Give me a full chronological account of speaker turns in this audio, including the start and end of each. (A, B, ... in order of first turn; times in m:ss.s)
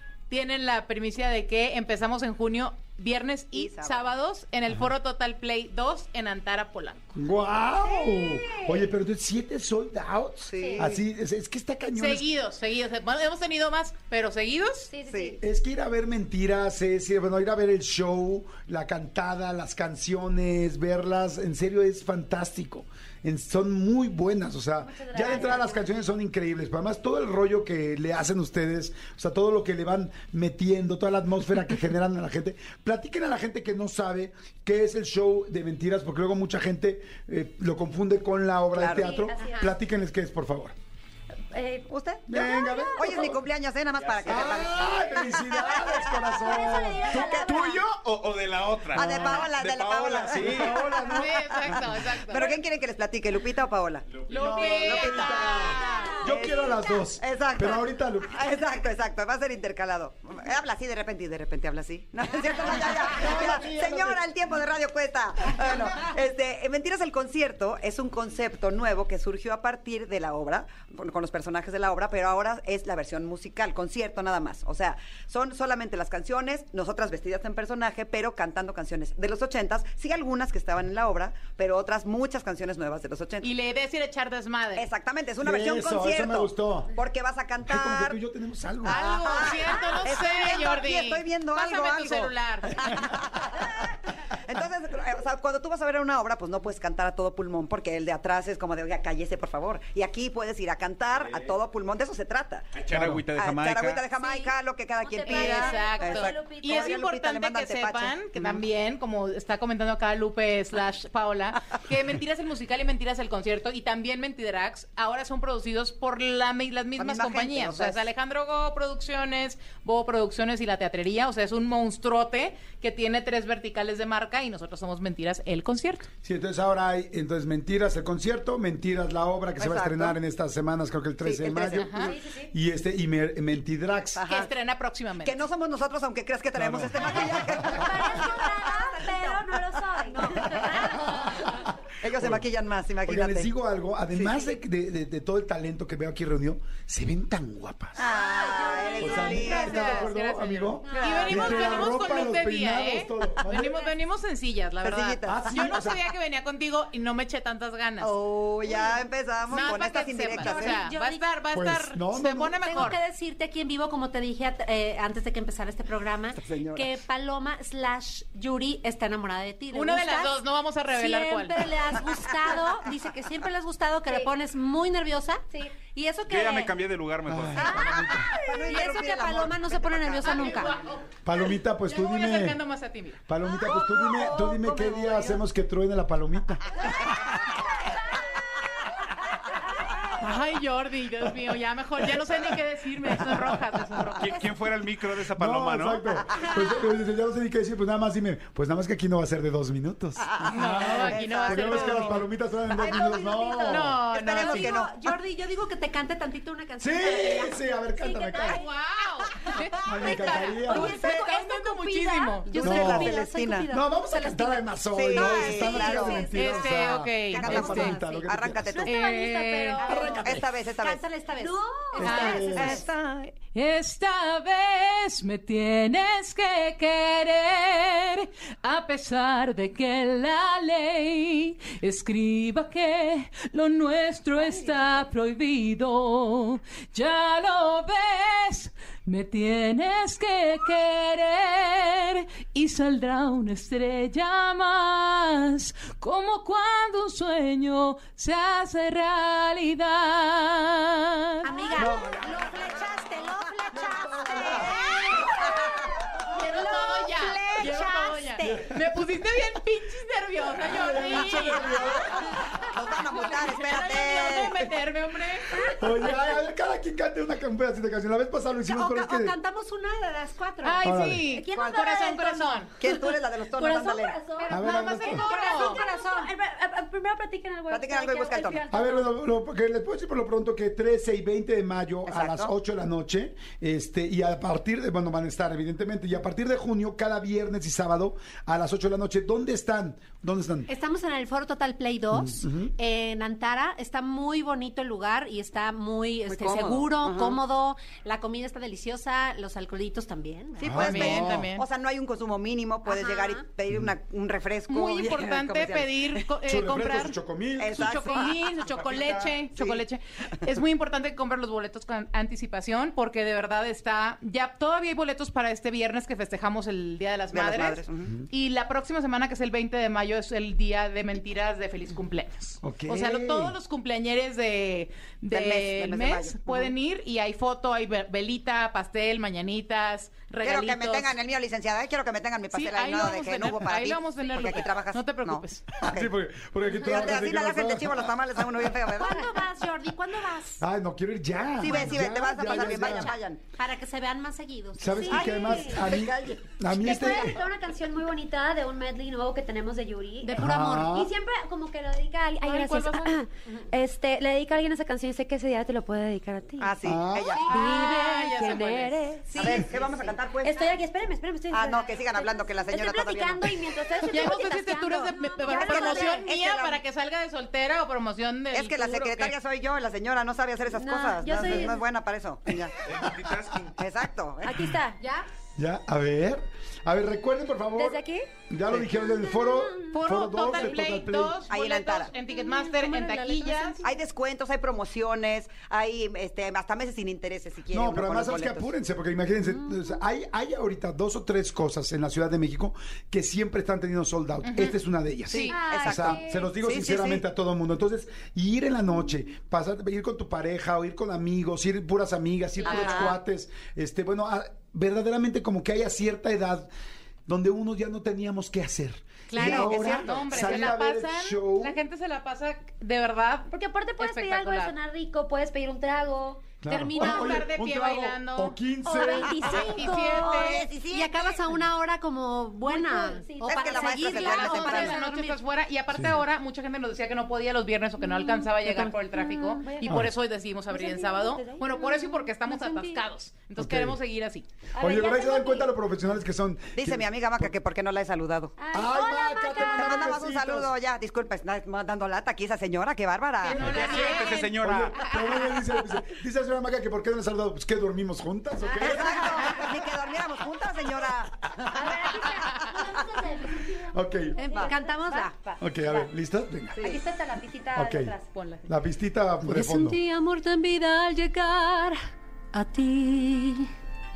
0:00.3-0:07.0 A
0:03.5-0:04.1 B
0:07.1-0:12.3 C
0:07.8-0:08.9 D
0:10.4-0:11.0 B
0:10.6-0:10.9 D
0:11.9-0:14.9 A
0:14.9-0:15.4 D
0:15.1-0:15.4 B
0:15.4-0:40.7 C
0:24.8-0:26.0 D
0:38.7-0:39.1 B
0:39.0-0:39.7 D
0:41.5-0:43.3 D
0:41.9-0:42.2 B
0:42.3-0:43.4 C
0:43.0-0:47.8 B
0:44.0-0:45.0 E
0:44.2-0:47.9 C
0:46.4-0:47.8 D
0:47.8-0:50.8 E
0:48.9-1:23.5 B
0:48.9-0:49.5 C
0:50.3-0:51.8 C
0:51.1-0:52.6 A
0:54.1-0:54.6 E
0:54.3-0:55.8 A
0:54.3-0:58.4 C
0:55.8-0:56.7 D
1:03.0-1:04.2 C
1:23.4-1:24.9 A
1:24.7-1:28.2 B
1:25.4-1:27.0 C
1:27.6-1:29.0 C
1:28.8-1:42.8 B
1:28.8-1:33.0 A
1:41.1-1:41.6 E
1:42.7-1:44.0 E
1:42.9-1:43.2 C
1:43.3-1:48.6 B
1:44.2-1:44.5 D
1:45.0-1:46.9 D
1:45.2-2:06.0 A
1:57.0-1:58.1 B
2:06.2-2:14.2 C
2:09.6-2:10.2 B
2:11.2-2:12.1 B
2:11.8-2:12.1 A
2:12.0-2:12.5 D
2:14.2-2:14.5 B
2:14.3-2:15.4 A
2:15.2-2:21.1 B
2:16.5-2:18.0 C
2:17.6-2:21.0 D
2:20.6-2:22.4 C
2:22.0-2:23.5 B
2:23.0-2:28.0 C
2:24.1-2:24.5 B
2:28.0-2:30.1 B
2:28.3-2:29.4 F
2:28.5-2:28.8 D
2:29.0-2:33.7 C
2:29.2-2:38.1 A
2:30.9-2:31.6 F
2:30.9-2:31.4 B
2:34.8-2:35.9 B
2:35.2-2:36.0 C
2:38.0-2:40.8 B
2:39.4-2:43.0 A
2:39.5-2:39.8 F
2:40.4-2:41.3 F
2:41.5-2:42.8 C
2:42.5-2:50.4 F
2:46.4-2:47.0 B
2:49.7-2:51.8 A
2:50.9-2:56.8 F
2:54.1-2:54.3 D
2:56.2-2:58.0 E
2:57.2-2:58.3 C
2:57.6-3:00.7 B
2:57.8-3:00.8 F
3:00.2-3:01.1 A
3:01.2-3:02.6 C
3:01.8-3:03.2 A
3:03.3-3:06.8 C
3:03.6-3:05.4 B
3:10.2-3:14.5 A
3:13.3-3:13.6 C
3:14.2-3:16.0 E
3:15.3-3:24.0 C
3:16.4-3:16.7 F
3:20.2-3:25.1 B
3:20.5-3:22.2 A
3:23.0-3:23.7 F
3:23.7-3:24.8 A
3:24.2-3:28.6 F
3:26.8-3:28.6 C
3:28.4-3:32.6 A
3:29.5-3:38.4 F
3:29.8-3:31.0 C
3:30.7-3:31.2 D
3:32.5-3:33.7 B
3:32.6-3:38.9 C
3:34.9-3:36.3 B
3:36.3-3:38.0 A
3:37.3-3:38.9 B
3:38.7-3:40.1 D
3:38.9-3:40.3 A
3:39.8-3:42.9 F
3:39.9-3:41.0 B
3:40.1-3:40.4 C
3:41.4-3:42.2 D
3:42.0-3:42.8 C
3:42.0-3:42.6 A
3:42.2-3:43.3 B
3:43.5-4:11.9 A
3:54.4-3:54.8 F
4:11.4-4:18.7 F
4:11.8-4:12.2 C
4:14.6-4:15.4 A
4:16.3-4:21.7 A
4:20.6-4:22.4 C
4:22.6-4:24.6 B
4:23.1-4:25.7 A
4:25.6-4:29.4 C
4:28.7-4:31.7 F
4:30.6-4:32.7 A
4:30.8-4:31.2 C
4:31.6-4:32.1 B
4:31.7-4:32.2 D
4:32.8-4:34.2 B
4:33.6-4:39.1 D
4:34.4-4:36.3 F
4:34.5-4:35.2 C
4:34.6-4:35.8 A
4:37.7-4:38.6 B
4:38.7-4:50.7 C
4:42.0-4:42.5 B
4:50.7-5:00.8 F
4:52.1-4:52.7 C
4:56.3-4:57.4 B
5:00.6-5:06.3 B
5:00.6-5:01.5 C
5:00.8-5:01.6 A
5:02.8-5:03.4 F
5:04.7-5:07.2 A
5:06.5-5:08.0 C
5:07.6-5:08.6 B
5:07.7-5:31.2 A
5:08.7-5:09.4 C
5:09.6-5:09.8 B
5:17.3-5:18.1 B
5:22.6-5:23.6 C
5:25.3-5:26.7 B
5:30.4-5:36.1 B
5:32.5-5:35.8 A
5:35.8-5:38.2 C
5:36.7-5:39.4 B
5:38.9-5:40.6 F
5:40.6-5:43.1 C
5:41.6-5:43.4 B
5:42.4-5:45.0 F
5:44.8-5:47.4 C
5:44.9-5:45.9 D
5:45.1-5:46.4 B
5:46.7-5:56.7 D
5:50.2-5:51.0 F
5:50.3-5:51.1 C
5:52.4-5:53.1 A
5:56.6-5:57.4 B
5:56.8-5:57.3 C
5:57.4-5:59.0 A
5:57.4-6:06.3 D
5:59.3-6:00.8 B
6:01.5-6:03.5 B
6:04.1-6:09.4 A
6:05.5-6:06.8 B
6:08.5-6:12.9 B
6:10.7-6:11.8 D
6:12.9-6:13.7 E
6:12.9-6:13.4 C
6:13.7-6:14.6 B
6:14.4-6:15.0 D
6:15.6-6:21.4 C
6:17.8-6:18.3 D
6:19.9-6:23.8 A
6:21.5-6:22.1 B
6:22.8-6:23.8 D
6:23.8-6:28.7 B
6:27.7-6:46.7 C
6:34.4-6:34.8 A
6:35.3-6:37.2 B
6:35.3-6:35.6 A
6:35.5-6:36.5 D
6:42.6-6:43.2 A
6:42.6-6:43.2 B
6:47.3-6:51.8 C
6:49.4-6:50.7 B
6:49.4-6:49.7 F
6:49.4-6:54.7 A
6:53.5-6:56.6 D
6:56.6-6:59.8 C
6:56.7-6:57.3 F
6:56.8-6:58.6 A
6:58.8-7:00.3 D
6:58.9-7:05.4 F
6:59.3-7:01.6 B
6:59.4-7:00.7 A
7:02.6-7:04.0 D
7:03.4-7:05.0 B
7:04.0-7:14.4 A
7:05.9-7:06.2 C
7:08.0-7:10.1 D
7:10.7-7:13.0 D
7:13.6-7:14.0 C
7:14.7-7:15.8 D
7:14.8-7:17.5 C
7:16.8-7:18.6 B
7:18.6-7:20.1 D
7:18.7-7:20.7 C
7:19.5-7:24.9 B
7:23.4-7:24.6 A
7:23.5-7:24.9 E
7:23.6-7:23.9 C
7:24.6-7:29.7 C
7:28.7-7:31.5 B
7:31.6-7:36.1 D
7:32.2-7:32.6 B
7:33.9-7:34.4 C
7:34.4-7:35.3 F
7:35.6-7:36.8 C
7:36.7-7:37.0 B
7:36.8-7:38.3 D
7:37.7-7:38.1 C
7:38.3-7:38.6 A
7:38.6-7:40.0 C
7:39.4-7:42.0 F
7:42.5-7:43.7 F